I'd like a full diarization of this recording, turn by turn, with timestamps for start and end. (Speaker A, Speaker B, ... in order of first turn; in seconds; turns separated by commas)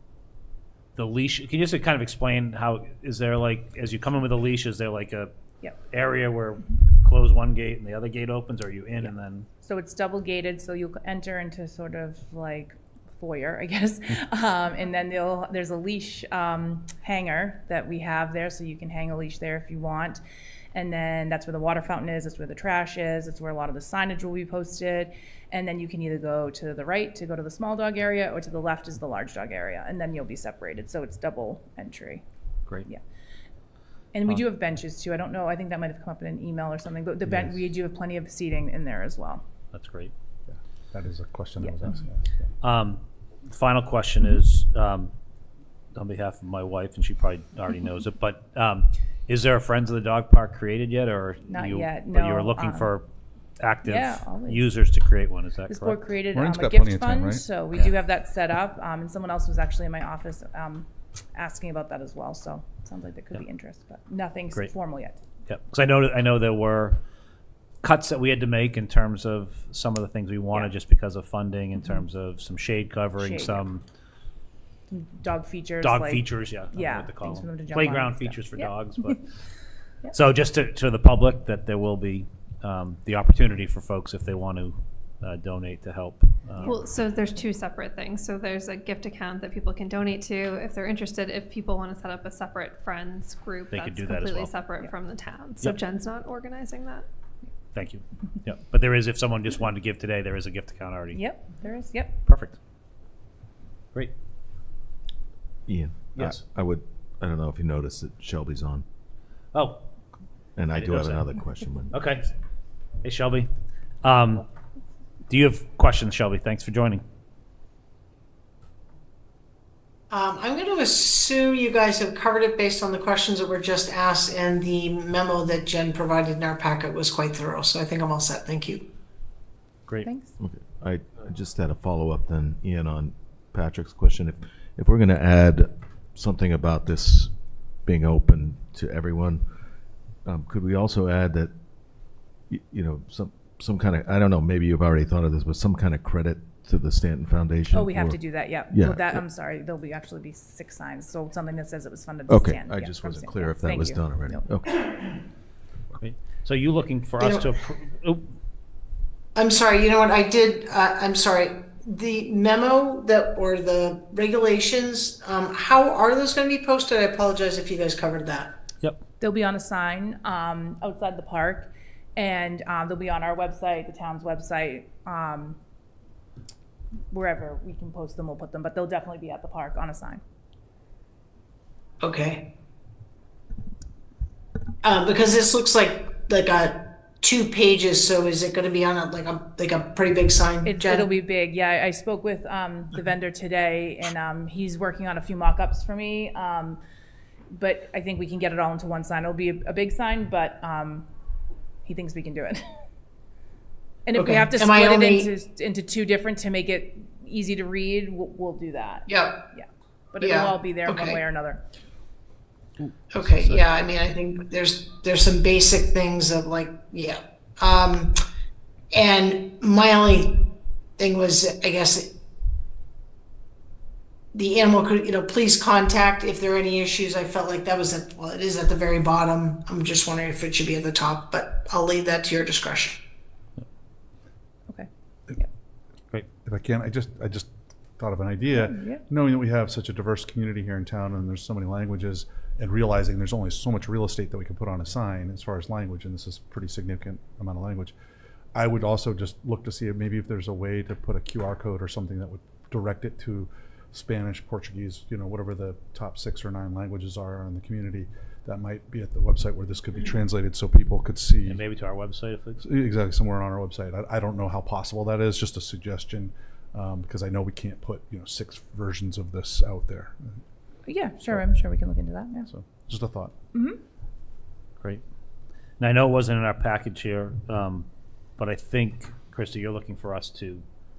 Speaker A: 0.9-5.3, Speaker A: 5.9-9.5, Speaker B: 9.6-32.2, Speaker B: 34.1-39.4, Speaker A: 39.7-40.1, Speaker C: 40.5-42.3, Speaker B: 41.6-41.8, Speaker A: 42.6-45.1, Speaker A: 45.9-53.0, Speaker B: 51.5-52.9, Speaker A: 53.6-56.0, Speaker B: 53.8-54.8, Speaker B: 55.7-65.2, Speaker C: 56.3-57.4, Speaker A: 65.5-67.0, Speaker A: 67.8-73.8, Speaker B: 73.2-73.7, Speaker B: 74.9-79.2, Speaker A: 75.8-79.2, Speaker A: 80.1-86.7, Speaker D: 86.6-97.0, Speaker A: 93.7-94.5, Speaker A: 97.7-101.2, Speaker B: 101.1-102.3, Speaker A: 102.2-102.6, Speaker E: 105.7-108.8, Speaker A: 109.5-109.8, Speaker E: 110.5-111.9, Speaker A: 110.8-111.2, Speaker A: 111.9-112.3, Speaker A: 113.0-113.5, Speaker A: 114.0-114.4, Speaker A: 115.3-117.0, Speaker F: 120.1-128.8, Speaker B: 130.0-130.3, Speaker E: 130.4-137.3, Speaker E: 137.8-139.4, Speaker E: 140.2-141.5, Speaker E: 142.5-149.2, Speaker B: 147.7-154.6, Speaker E: 152.3-154.9, Speaker A: 156.0-158.2, Speaker F: 157.2-157.5, Speaker F: 159.3-168.6, Speaker B: 169.2-175.6, Speaker B: 177.1-180.2, Speaker F: 182.0-182.5, Speaker F: 184.8-191.1, Speaker B: 190.6-196.8, Speaker B: 197.5-201.1, Speaker B: 201.8-202.8, Speaker B: 204.1-211.6, Speaker F: 204.1-205.3, Speaker F: 209.1-209.4, Speaker F: 210.2-211.2, Speaker A: 212.8-213.6, Speaker F: 213.1-218.2, Speaker F: 218.9-220.4, Speaker F: 221.0-222.1, Speaker F: 224.3-233.0, Speaker B: 234.7-235.5, Speaker C: 236.4-247.9, Speaker B: 238.5-239.1, Speaker C: 248.5-261.6, Speaker A: 261.4-262.6, Speaker C: 262.6-270.1, Speaker B: 270.9-272.5, Speaker C: 272.5-273.3, Speaker B: 273.5-273.8, Speaker A: 275.8-277.9, Speaker A: 278.4-280.6